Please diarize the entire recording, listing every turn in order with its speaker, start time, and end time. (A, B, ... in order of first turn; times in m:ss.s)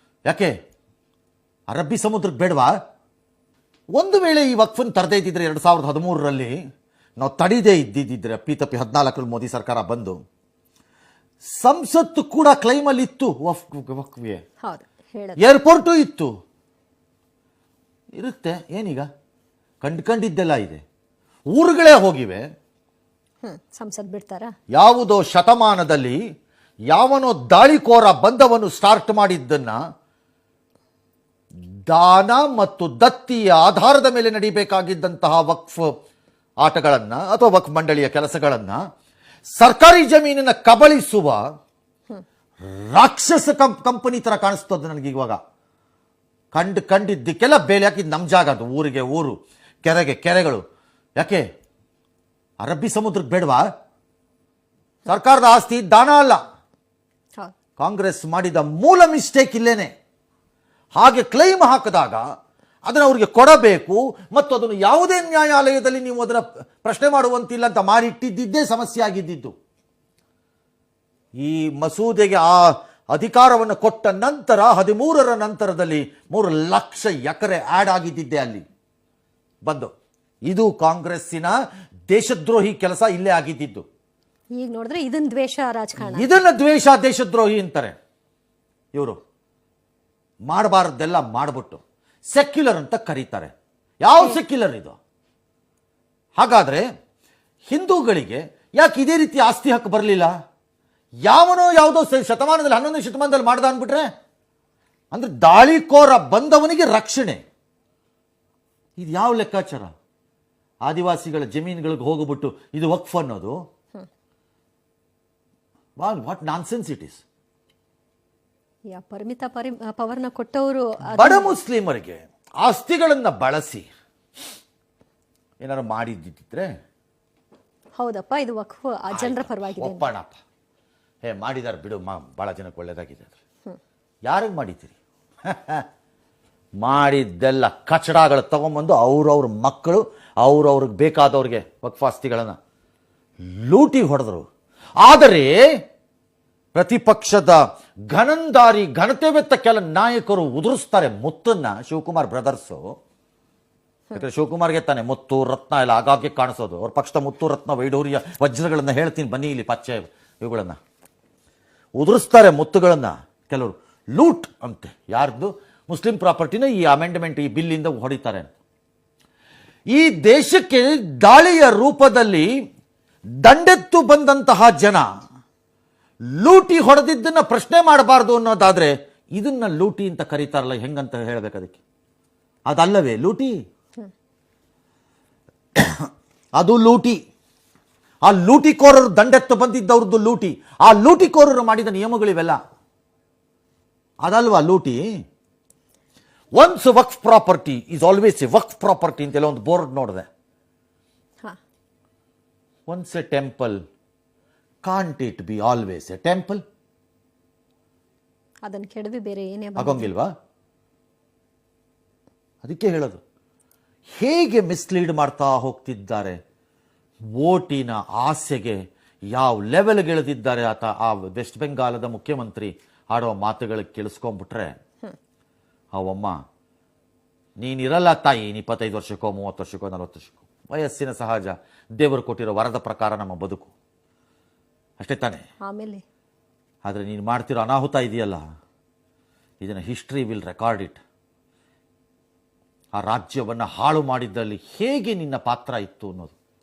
0:00.3-0:00.5 A
0:01.7-0:02.7 A
0:04.0-0:06.6 A
0:07.2-0:10.2 A
0:11.5-0:14.4 A
0:14.6-0:15.4 B
0:15.4-0:16.3 A
0:18.2-0:19.1 A
0:19.8-0:20.8 A
0:21.5-0:22.4 A
0:23.4-0:24.5 B
0:24.7-0:26.2 A
0:26.9-0:29.8 A
0:31.9-0:35.9 A
0:36.6-0:38.8 A
0:39.6-0:41.4 A
0:42.7-0:45.4 A
0:46.5-0:50.6 A
0:51.2-0:51.4 A
0:52.6-0:53.7 A
0:55.1-0:56.4 A
0:57.8-0:59.9 A
1:01.0-1:02.2 A
1:02.8-1:09.5 A
1:11.4-1:18.6 A
1:19.6-1:19.9 A
1:20.4-1:21.5 A
1:22.1-1:23.8 A
1:24.6-1:26.3 B
1:26.0-1:28.0 A
1:28.9-1:29.2 A
1:30.4-1:31.8 A
1:32.3-1:35.0 A
1:36.4-1:36.9 A
1:37.7-1:40.3 A
1:41.2-1:44.1 A
1:45.1-1:47.4 A
1:49.0-1:49.9 A
1:50.8-1:53.6 A
1:56.0-1:57.2 A
1:58.9-2:01.5 B
2:01.2-2:03.9 A
2:05.6-2:06.7 A
2:08.0-2:10.0 B
2:09.1-2:10.4 A
2:11.2-2:13.3 A
2:14.3-2:14.9 A
2:15.5-2:15.8 A
2:16.8-2:22.6 A
2:23.4-2:24.5 A
2:25.0-2:25.6 A
2:26.8-2:32.9 A
2:34.1-2:40.8 A
2:42.0-2:48.5 A
2:49.9-2:52.5 A
2:53.4-2:55.1 A
2:56.3-3:01.8 A
3:02.7-3:03.6 A
3:05.8-3:06.0 A
3:06.6-3:07.2 A
3:08.2-3:12.6 A
3:14.2-3:15.0 A
3:16.6-3:20.3 A
3:22.9-3:23.8 A
3:24.8-3:26.6 A
3:28.6-3:30.1 B
3:29.8-3:30.3 A
3:32.6-3:33.2 A
3:34.2-3:36.4 A
3:37.4-3:38.8 A
3:39.3-3:44.8 A
3:45.9-3:46.4 A
3:47.6-3:53.7 A
3:55.0-3:55.4 A
3:55.6-3:56.0 B
3:56.8-3:58.4 A
3:59.6-4:01.0 A
4:02.9-4:06.3 A